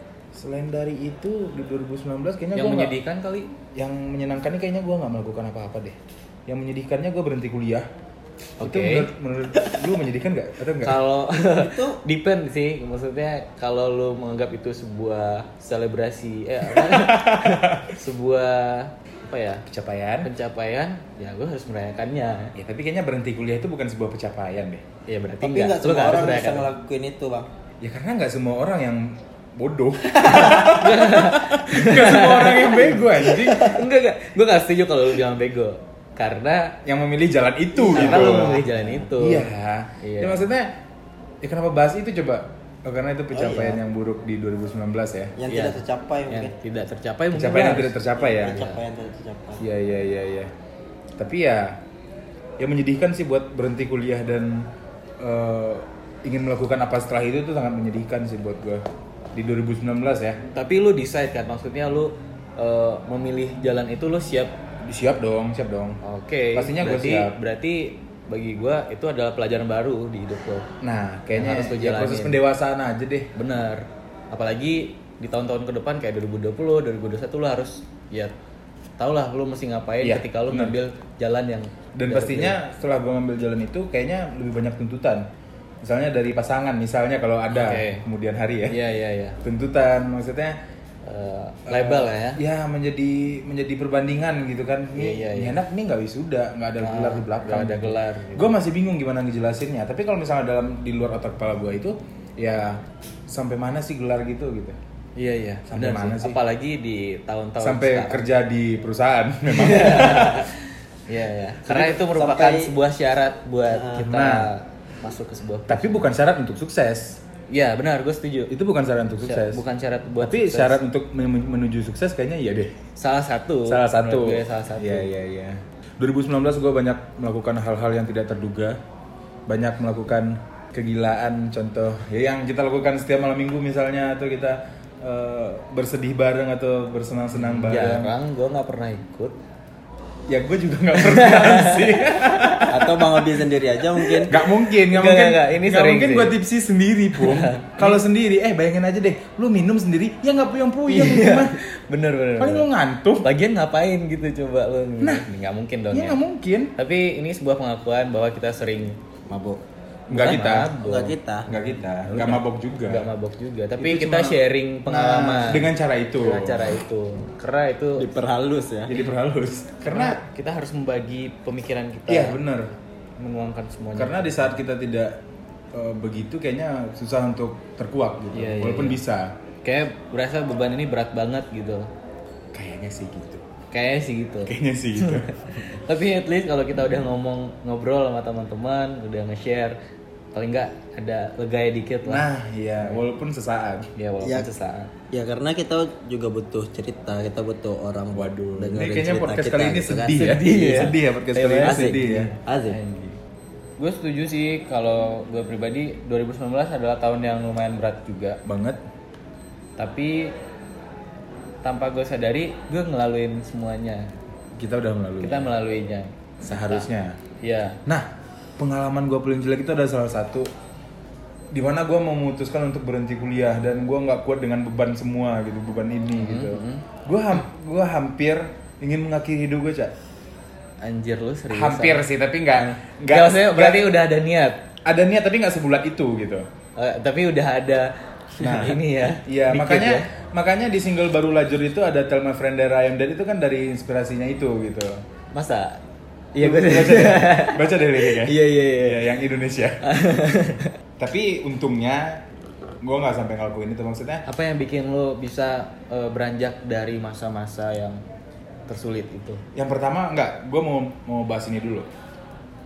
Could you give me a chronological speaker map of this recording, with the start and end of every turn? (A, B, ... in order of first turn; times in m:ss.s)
0:00.3-0:02.9 A
0:02.5-0:03.5 B
0:03.7-0:07.9 A
0:08.6-0:09.1 B
0:08.6-0:11.0 A
0:10.8-0:19.6 B
0:11.5-0:12.0 C
0:16.7-0:17.9 A
0:19.7-0:20.3 A
0:20.2-0:22.5 B
0:22.5-0:24.8 A
0:25.1-0:26.7 B
0:25.4-0:27.5 C
0:27.8-0:33.8 A
0:30.1-0:30.7 C
0:30.3-0:36.7 B
0:36.8-0:40.7 A
0:37.8-0:39.0 C
0:37.9-0:39.5 B
0:40.0-0:40.4 B
0:41.4-0:45.3 A
0:43.3-0:43.8 C
0:45.4-0:46.5 C
0:45.5-0:48.8 B
0:47.3-0:48.6 A
0:48.2-0:49.6 C
0:49.6-0:50.5 A
0:51.2-0:51.8 A
0:52.6-0:54.7 A
0:55.2-1:00.4 A
1:00.5-1:04.5 B
1:04.8-1:06.0 A
1:06.0-1:10.7 B
1:06.5-1:07.3 A
1:10.8-1:13.3 A
1:11.3-1:12.4 B
1:13.3-1:18.3 B
1:19.0-1:22.6 B
1:20.0-1:20.8 A
1:22.0-1:25.3 A
1:25.8-1:28.8 A
1:27.5-1:28.0 B
1:28.7-1:29.4 B
1:29.4-1:30.6 A
1:31.0-1:32.4 B
1:31.7-1:44.8 A
1:34.9-1:35.6 B
1:36.8-1:38.5 B
1:45.2-1:48.3 B
1:45.7-1:46.4 A
1:47.6-1:50.5 A
1:49.5-1:55.8 B
1:51.7-1:52.7 C
1:53.7-1:54.1 C
1:54.0-1:54.5 A
1:55.7-1:57.2 A
1:57.5-1:58.5 B
1:58.5-1:59.6 A
1:59.2-2:00.8 B
2:00.2-2:02.7 A
2:03.0-2:05.1 B
2:03.6-2:08.8 A
2:09.5-2:18.1 A
2:17.5-2:19.3 B
2:20.3-2:23.1 A
2:21.0-2:22.8 B
2:22.7-2:24.4 C
2:24.0-2:26.4 B
2:24.2-2:31.6 A
2:27.1-2:28.0 B
2:30.9-2:32.7 B
2:32.4-2:33.3 A
2:33.2-2:36.2 B
2:35.0-2:35.3 A
2:35.9-2:36.7 A
2:36.8-2:39.0 B
2:39.3-2:39.6 C
2:40.1-2:40.7 A
2:40.1-2:41.1 B
2:40.7-2:41.5 C
2:41.5-2:43.1 A
2:42.0-2:48.1 B
2:43.8-2:46.8 A
2:48.0-2:48.9 C
2:48.8-2:50.2 A
2:49.8-2:52.4 B
2:52.1-2:52.7 A
2:53.2-2:54.6 B
2:53.9-2:55.2 A
2:55.7-2:59.4 A
2:58.3-2:59.0 B
2:59.6-3:01.9 B
3:02.5-3:03.4 A
3:03.7-3:09.8 B
3:04.4-3:05.3 A
3:10.3-3:12.2 B
3:12.0-3:13.9 A
3:14.0-3:14.9 B
3:14.2-3:14.5 C
3:15.1-3:20.7 C
3:18.1-3:22.3 A
3:20.1-3:21.9 B
3:21.6-3:22.8 C
3:22.7-3:23.1 B
3:23.8-3:28.4 B
3:28.4-3:28.8 A
3:29.8-3:30.3 B
3:31.6-3:34.1 B
3:34.6-3:35.5 A
3:35.2-3:36.8 B
3:36.4-3:37.2 A
3:37.4-3:37.8 B
3:37.8-3:40.5 A
3:41.5-3:49.9 A
3:46.2-3:46.8 B
3:50.8-3:54.6 B
3:51.5-3:53.9 A
3:54.8-3:56.5 A
3:56.8-4:00.1 B
3:58.4-4:05.0 A
4:05.3-4:05.8 B
4:06.3-4:09.0 B
4:06.4-4:09.8 A
4:09.8-4:10.7 B
4:11.0-4:12.2 A
4:12.8-4:14.2 A
4:14.3-4:18.0 B
4:18.7-4:19.4 B
4:19.5-4:21.9 A